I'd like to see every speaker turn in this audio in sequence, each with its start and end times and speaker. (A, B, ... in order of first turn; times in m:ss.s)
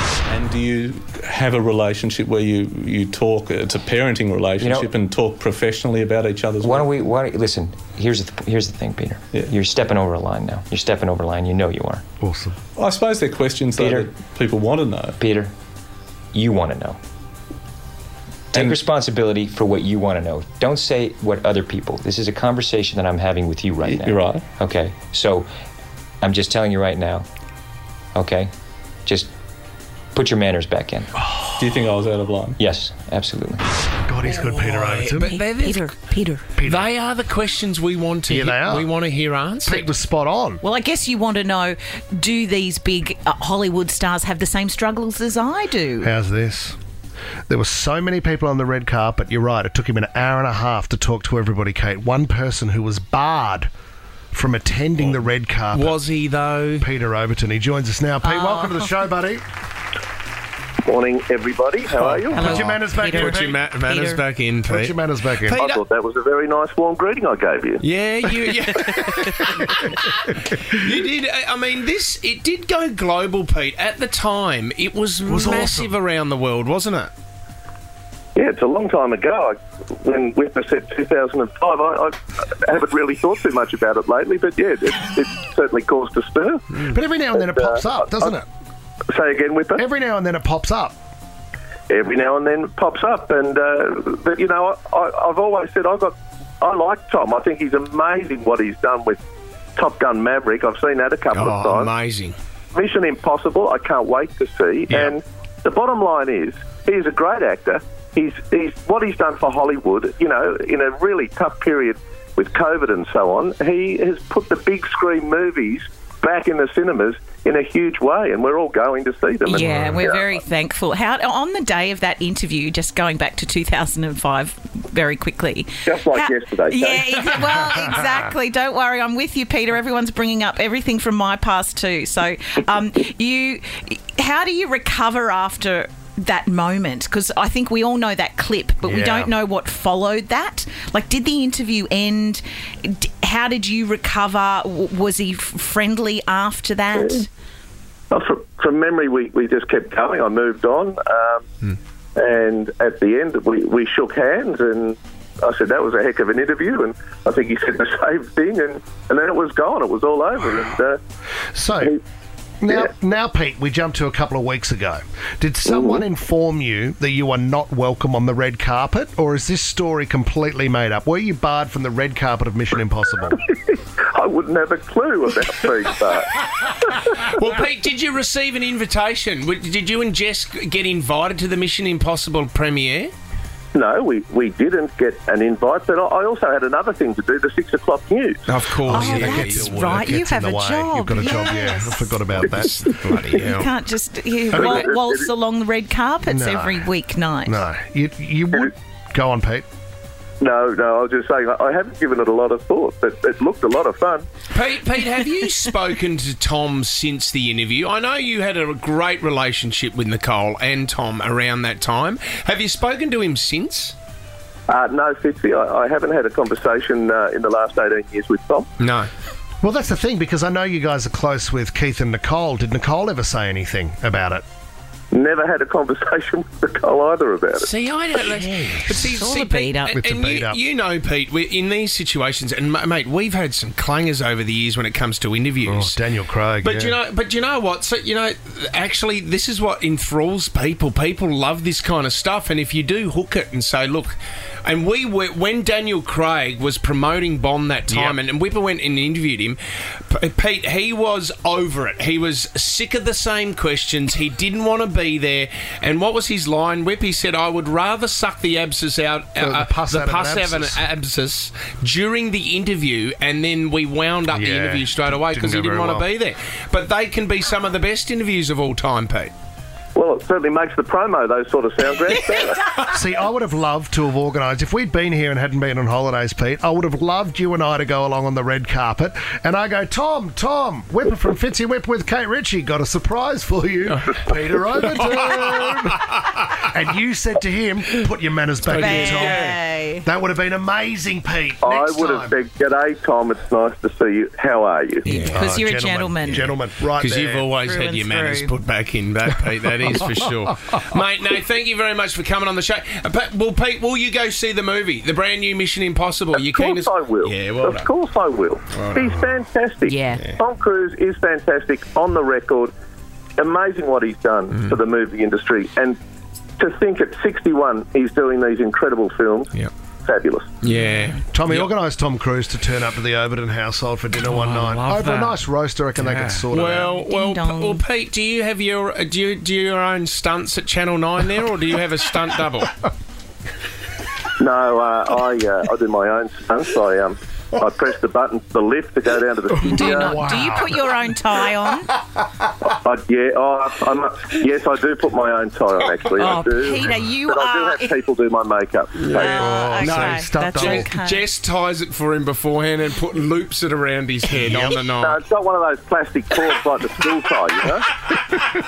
0:00.3-0:06.9 A
0:04.6-0:04.9 B
0:06.6-0:12.0 B
0:12.2-0:12.6 C
0:12.8-0:15.2 A
0:13.8-0:14.1 B
0:15.2-0:15.5 B
0:16.3-0:17.0 B
0:18.5-0:18.8 A
0:18.5-0:25.5 B
0:23.8-0:24.4 A
0:26.2-0:27.2 B
0:28.2-0:28.5 B
0:29.1-0:29.3 B
0:30.2-0:31.1 B
0:31.6-0:32.6 A
0:32.6-0:33.6 B
0:34.1-0:35.3 C
0:34.2-0:35.9 D
0:35.3-0:36.4 E
0:36.6-0:36.9 C
0:36.6-0:39.9 D
0:38.3-0:38.9 C
0:39.7-0:40.6 C
0:40.6-0:46.1 E
0:46.0-0:46.8 C
0:47.5-0:53.7 C
0:54.3-0:56.0 C
0:55.0-0:56.9 D
0:56.8-0:59.4 C
0:58.2-0:58.9 E
1:00.8-1:02.6 F
1:01.9-1:05.8 D
1:02.3-1:04.2 E
1:02.5-1:03.6 C
1:04.6-1:05.6 C
1:05.6-1:07.8 F
1:07.8-1:17.1 D
1:15.2-1:15.9 C
1:18.4-1:28.4 F
1:26.8-1:28.5 C
1:29.1-1:29.8 F
1:29.8-1:31.0 C
1:31.9-1:39.2 F
1:39.8-1:41.9 F
1:41.3-1:42.4 D
1:42.7-2:00.3 F
1:59.5-2:27.3 E
2:05.9-2:07.4 F
2:18.8-2:19.3 C
2:28.1-2:31.5 F
2:32.2-2:41.0 F
2:41.5-2:42.0 C
2:42.6-2:53.4 C
2:45.7-2:46.0 F
2:53.3-2:57.2 F
2:57.2-3:03.1 D
3:03.7-3:08.4 F
3:08.5-3:10.2 D
3:08.9-3:12.4 E
3:08.9-3:12.8 C
3:12.5-3:13.7 D
3:13.3-3:17.7 E
3:14.5-3:15.3 F
3:16.3-3:16.9 C
3:17.4-3:19.7 C
3:20.4-3:24.3 F
3:24.5-3:34.0 D
3:34.7-3:38.7 F
3:38.8-3:39.1 D
3:39.6-3:44.4 C
3:45.1-3:47.7 F
3:47.6-4:09.6 D
3:48.9-3:50.0 E
3:49.9-3:50.6 C
3:55.6-3:57.0 C
4:07.9-4:08.2 C
4:10.1-4:29.3 D
4:19.4-4:20.8 C
4:24.3-4:26.1 C
4:30.0-4:32.8 F
4:32.9-4:46.1 C
4:44.8-4:46.2 D
4:46.6-4:49.4 C
4:48.6-4:49.6 D
4:48.7-4:50.1 E
4:50.0-4:52.4 C
4:51.6-4:55.1 F
4:55.1-4:55.6 D
4:55.1-4:56.6 E
4:55.2-4:57.5 C
4:56.4-5:07.9 D
4:57.6-4:58.5 E
5:06.4-5:12.7 F
5:08.7-5:09.2 D
5:10.1-5:10.4 D
5:13.4-5:16.0 F
5:16.6-5:19.5 F
5:20.0-5:20.5 F
5:20.6-5:21.7 D
5:21.3-5:26.9 C
5:24.3-5:25.3 D
5:26.0-5:32.7 D
5:26.8-5:27.8 E
5:34.4-5:40.4 F
5:39.6-5:41.9 E
5:39.7-5:40.8 C
5:42.6-5:49.5 F
5:46.2-5:48.0 E
5:49.0-5:55.2 D
5:49.1-5:51.2 E
5:49.4-5:50.9 C
5:54.4-5:54.8 C
5:54.9-5:58.0 F